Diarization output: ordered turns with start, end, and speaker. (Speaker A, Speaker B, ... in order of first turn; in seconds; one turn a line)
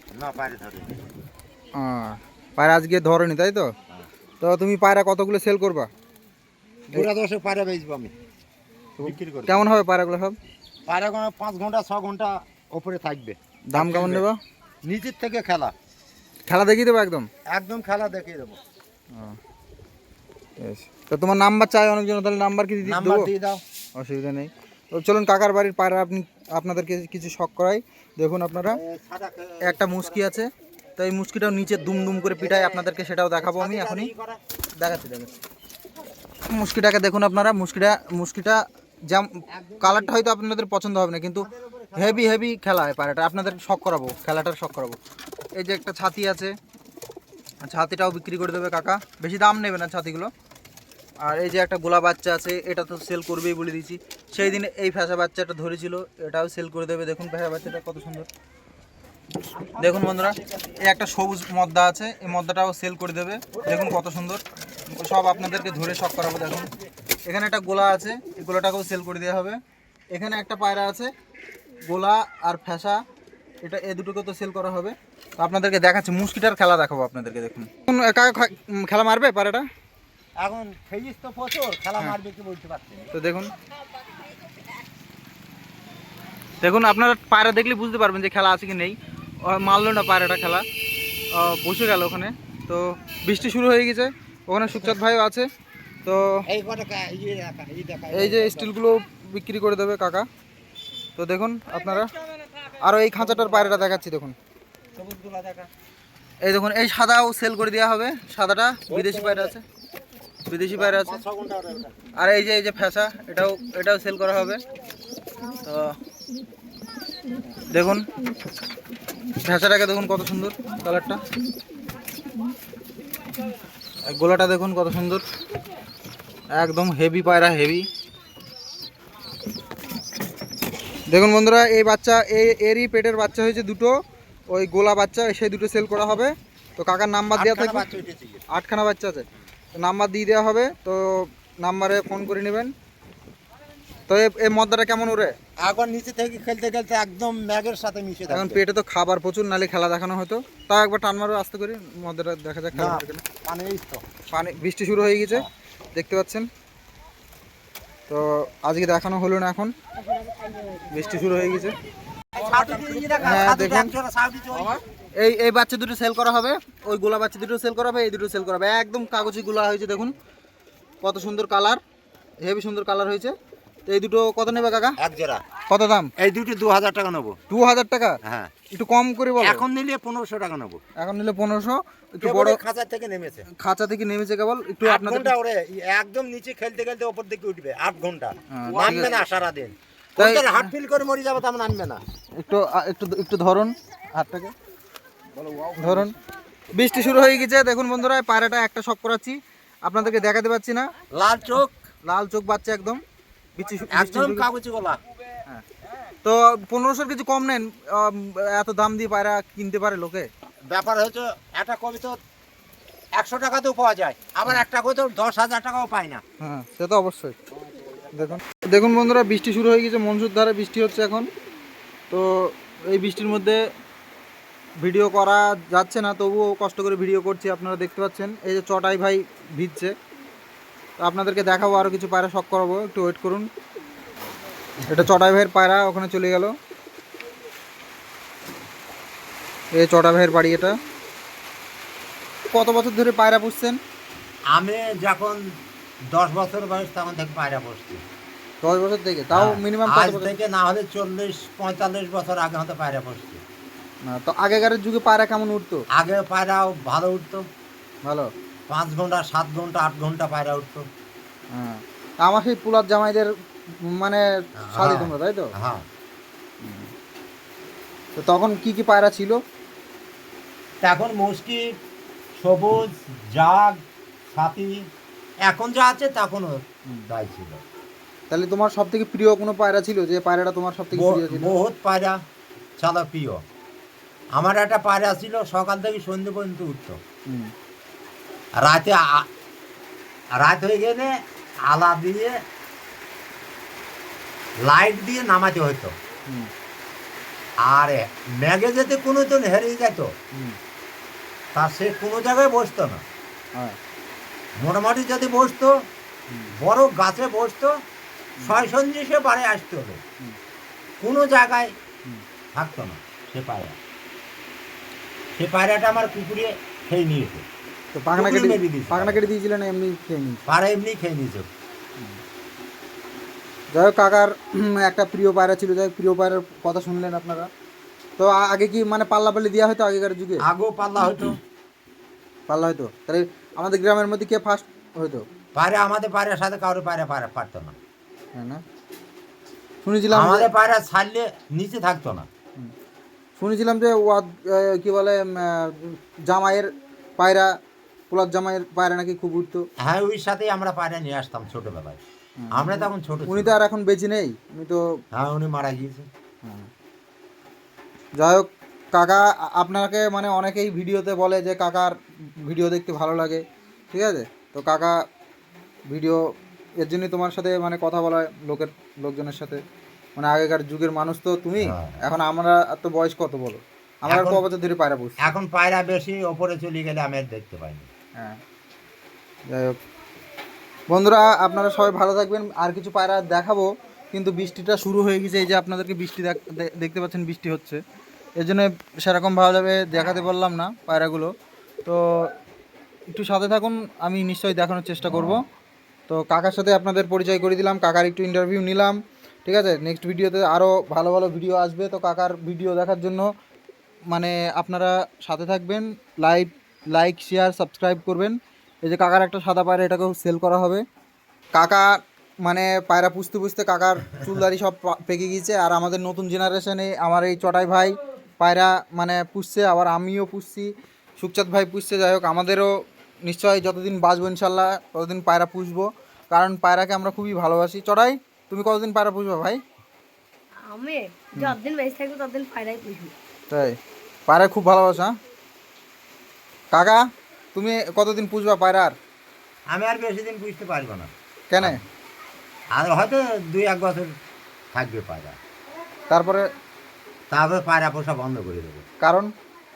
Speaker A: 0.1-1.0
Speaker B: 1.8-3.7
Speaker B: 4.4-5.9
Speaker A: 6.9-8.1
Speaker B: 9.0-10.3
Speaker A: 9.0-9.6
Speaker A: 10.9-14.2
Speaker B: 13.7-14.4
Speaker A: 14.8-15.7
Speaker B: 16.5-17.3
Speaker A: 17.5-18.6
Speaker B: 19.1-19.4
Speaker B: 20.6-23.3
Speaker A: 22.8-23.6
Speaker B: 24.0-28.8
Speaker A: 28.7-30.3
Speaker B: 29.6-34.1
Speaker A: 32.4-34.4
Speaker B: 34.8-35.3
Speaker B: 36.5-45.0
Speaker A: 39.5-40.2
Speaker A: 41.4-42.3
Speaker B: 45.5-46.5
Speaker B: 47.6-50.3
Speaker B: 51.2-58.3
Speaker A: 59.5-60.8
Speaker B: 59.8-66.7
Speaker B: 67.2-69.6
Speaker B: 70.1-71.1
Speaker B: 71.9-73.0
Speaker B: 73.6-79.7
Speaker A: 80.4-83.1
Speaker B: 83.1-83.5
Speaker B: 86.6-90.6
Speaker B: 91.3-95.5
Speaker B: 96.0-96.5
Speaker A: 96.5-98.7
Speaker B: 98.1-100.3
Speaker B: 101.2-102.1
Speaker B: 102.8-104.3
Speaker A: 105.0-105.7
Speaker B: 106.4-109.6
Speaker A: 108.9-109.5
Speaker B: 110.5-111.2
Speaker A: 110.7-112.0
Speaker B: 112.2-114.6
Speaker B: 115.6-116.0
Speaker B: 117.7-118.1
Speaker B: 119.4-121.2
Speaker B: 124.1-125.2
Speaker B: 126.5-127.8
Speaker B: 131.1-134.0
Speaker B: 134.5-137.8
Speaker A: 137.3-138.4
Speaker B: 138.5-139.2
Speaker B: 139.8-142.7
Speaker B: 144.1-145.3
Speaker A: 145.6-148.6
Speaker B: 148.3-153.2
Speaker A: 152.7-154.0
Speaker B: 154.3-156.5
Speaker B: 158.1-159.7
Speaker C: 159.9-161.4
Speaker B: 160.9-161.8
Speaker A: 162.3-164.8
Speaker B: 163.2-163.9
Speaker B: 164.5-170.1
Speaker B: 171.0-171.8
Speaker B: 172.4-173.3
Speaker B: 173.9-175.0
Speaker A: 175.0-175.4
Speaker B: 175.7-176.1
Speaker A: 176.2-177.4
Speaker B: 177.5-178.2
Speaker A: 178.2-178.5
Speaker B: 178.7-179.6
Speaker A: 179.4-180.8
Speaker B: 181.0-182.6
Speaker A: 182.2-183.5
Speaker B: 183.6-185.3
Speaker A: 184.8-192.0
Speaker B: 188.5-189.2
Speaker B: 190.2-190.7
Speaker B: 192.4-194.5
Speaker A: 195.4-196.0
Speaker B: 195.8-196.1
Speaker B: 196.7-200.9
Speaker A: 201.1-201.7
Speaker B: 202.1-203.0
Speaker B: 203.6-204.4
Speaker A: 203.9-205.0
Speaker B: 206.2-210.3
Speaker A: 210.7-212.2
Speaker A: 213.2-216.2
Speaker B: 216.4-217.4
Speaker B: 218.1-221.3
Speaker B: 222.1-223.6
Speaker B: 224.8-229.9
Speaker B: 231.0-233.4
Speaker B: 234.9-236.5
Speaker B: 239.7-240.8
Speaker B: 242.5-243.8
Speaker A: 244.5-245.4
Speaker A: 246.1-248.0
Speaker B: 248.6-250.3
Speaker A: 249.3-253.4
Speaker B: 254.1-255.8
Speaker A: 255.9-257.4
Speaker A: 258.7-260.9
Speaker B: 261.5-263.3
Speaker B: 263.8-265.5
Speaker A: 264.6-265.8
Speaker B: 266.6-266.9
Speaker B: 268.1-269.4
Speaker A: 270.8-271.7
Speaker A: 272.4-273.8
Speaker A: 274.3-274.8
Speaker A: 275.4-277.6
Speaker B: 278.3-281.5
Speaker A: 280.9-282.2
Speaker A: 282.8-283.4
Speaker A: 284.3-287.0
Speaker A: 288.6-289.3
Speaker A: 290.4-291.1
Speaker A: 291.7-292.4
Speaker A: 294.6-295.9
Speaker A: 297.6-300.1
Speaker A: 301.5-303.0
Speaker A: 304.6-305.8
Speaker B: 306.3-306.5
Speaker A: 306.5-307.7
Speaker A: 308.4-310.0
Speaker A: 311.0-311.7
Speaker A: 312.5-313.8
Speaker A: 315.4-317.4
Speaker B: 317.9-320.4
Speaker A: 318.1-319.2
Speaker A: 320.5-321.5
Speaker B: 323.7-327.5
Speaker B: 328.2-330.4
Speaker A: 330.4-331.4
Speaker B: 332.5-335.2
Speaker A: 335.5-337.8
Speaker B: 338.3-338.6
Speaker B: 339.8-340.5
Speaker A: 340.1-342.3
Speaker B: 343.4-347.5
Speaker B: 348.1-349.6
Speaker A: 349.8-352.0
Speaker B: 352.4-354.9
Speaker A: 352.5-353.5
Speaker A: 355.1-356.1
Speaker B: 358.2-365.0
Speaker B: 365.9-366.2
Speaker B: 366.8-369.6
Speaker B: 370.2-375.3
Speaker A: 371.6-372.0
Speaker A: 374.1-374.4
Speaker A: 375.2-377.9
Speaker B: 379.5-379.8
Speaker B: 380.9-387.8
Speaker B: 388.4-391.3
Speaker B: 391.8-392.3
Speaker B: 393.1-395.4
Speaker B: 396.1-403.3
Speaker B: 404.1-410.8
Speaker B: 411.5-411.9
Speaker B: 412.4-422.7
Speaker B: 423.2-429.6
Speaker C: 430.6-433.1
Speaker B: 433.5-433.8
Speaker B: 434.3-435.1
Speaker B: 436.7-437.0
Speaker B: 437.5-438.9
Speaker A: 439.7-441.8
Speaker B: 441.5-441.8
Speaker A: 442.7-444.1
Speaker A: 444.7-445.4
Speaker B: 446.1-446.5
Speaker A: 447.3-448.8
Speaker B: 449.0-449.3